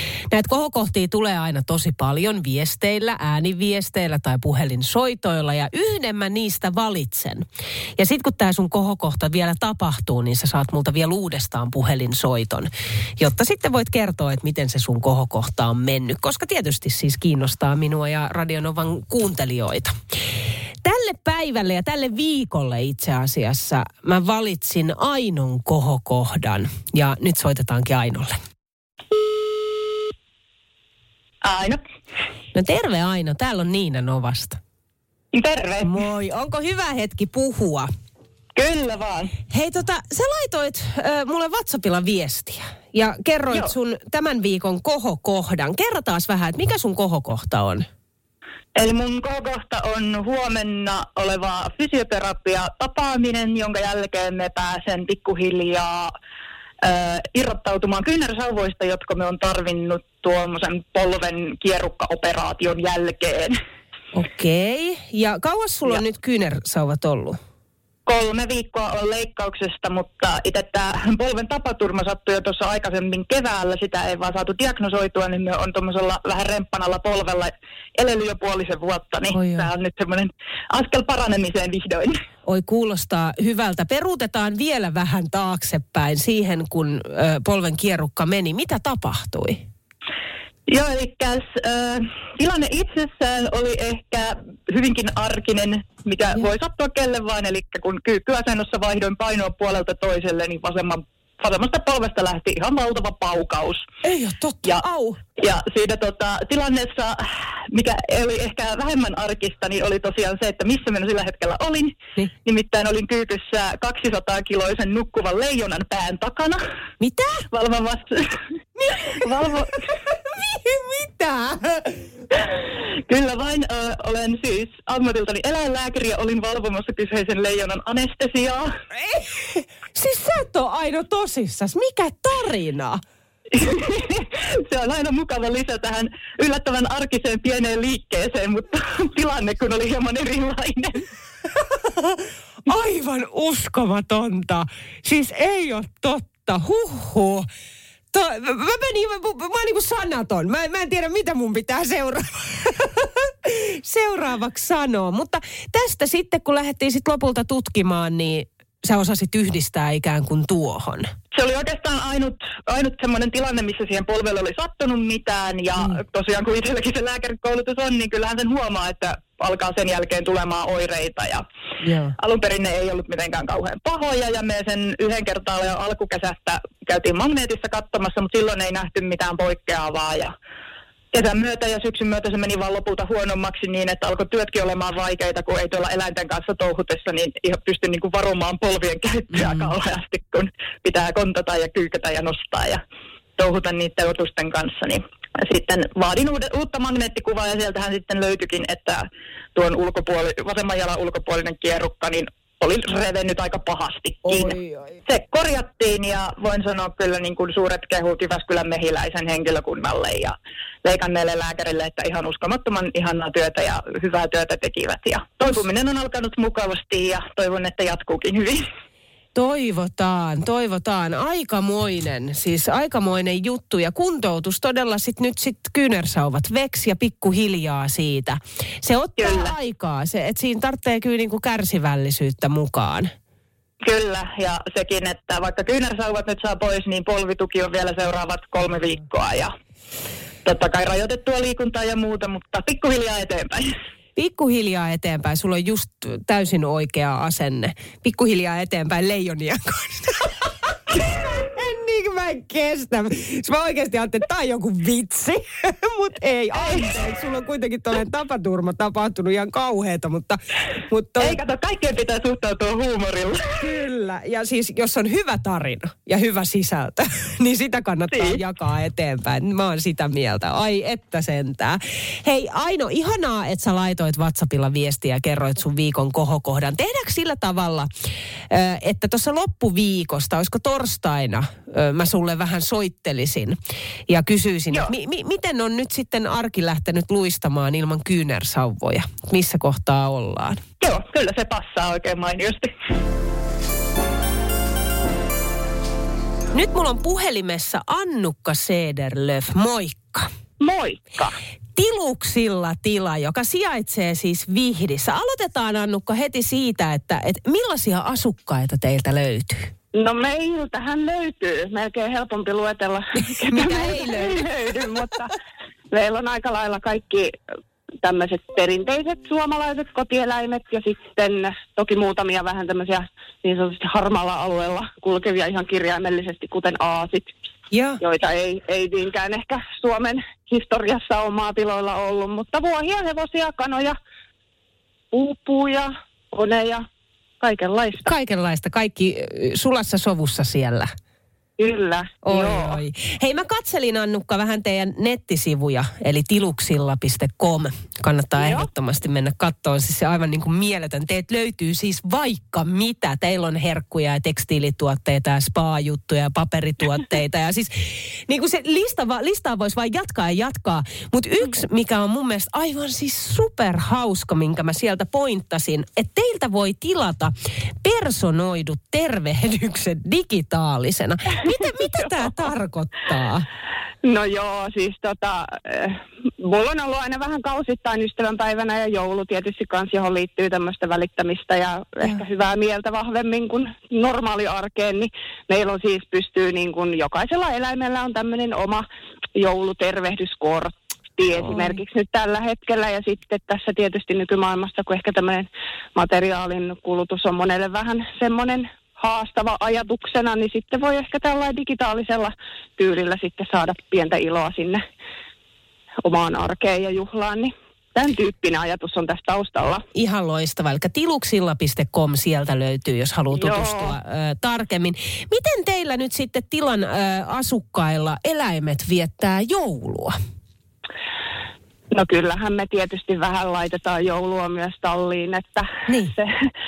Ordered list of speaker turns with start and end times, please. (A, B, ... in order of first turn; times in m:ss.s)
0:00.3-0:07.4 A
0:08.0-0:19.9 A
0:20.8-0:28.4 A
0:31.4-0:31.8 B
0:32.5-0:34.6 A
0:35.3-0:36.0 B
0:35.8-0:37.9 A
0:38.6-0:39.3 B
0:39.5-0:47.9 A
0:48.8-0:56.1 B
0:56.8-1:03.6 B
1:04.1-1:07.4 A
1:08.1-1:22.2 B
1:19.3-1:19.7 A
1:22.5-1:29.6 A
1:30.7-1:43.8 B
1:44.0-1:45.2 A
1:45.4-1:56.6 B
1:57.0-1:57.5 A
1:57.5-1:58.4 B
1:58.8-1:59.3 A
1:59.0-1:59.8 B
2:00.3-2:02.0 A
2:02.5-2:08.7 B
2:09.0-2:13.0 A
2:13.5-2:21.0 B
2:21.8-2:27.5 A
2:28.1-2:41.1 A
2:41.3-2:51.4 B
2:51.8-2:52.1 A
2:52.2-3:00.3 B
3:01.1-3:12.8 B
3:09.3-3:09.7 A
3:13.4-3:38.6 B
3:24.3-3:24.9 A
3:39.4-3:53.1 A
3:49.2-3:49.5 B
3:53.8-3:59.5 B
4:00.4-4:03.8 B
4:04.2-4:21.4 A
4:21.2-4:23.4 B
4:23.6-4:37.9 A
4:28.1-4:28.4 B
4:38.5-4:50.6 A
4:50.8-4:52.7 B
4:56.5-5:00.3 A
5:00.6-5:01.4 C
5:01.8-5:09.7 A
5:10.0-5:15.3 C
5:13.2-5:14.4 A
5:15.9-5:17.3 C
5:18.0-5:27.3 C
5:27.7-5:28.0 A
5:28.0-5:34.0 C
5:35.1-5:36.8 C
5:37.4-5:38.1 C
5:38.0-5:40.9 A
5:41.6-5:42.8 C
5:42.2-6:13.4 A
5:48.4-5:48.7 C
6:14.0-6:28.9 C
6:29.4-6:44.8 C
6:31.4-6:31.8 A
6:46.0-6:49.8 C
6:49.9-7:00.2 A
6:53.3-6:53.9 C
7:01.9-7:06.3 C
7:05.9-7:06.1 A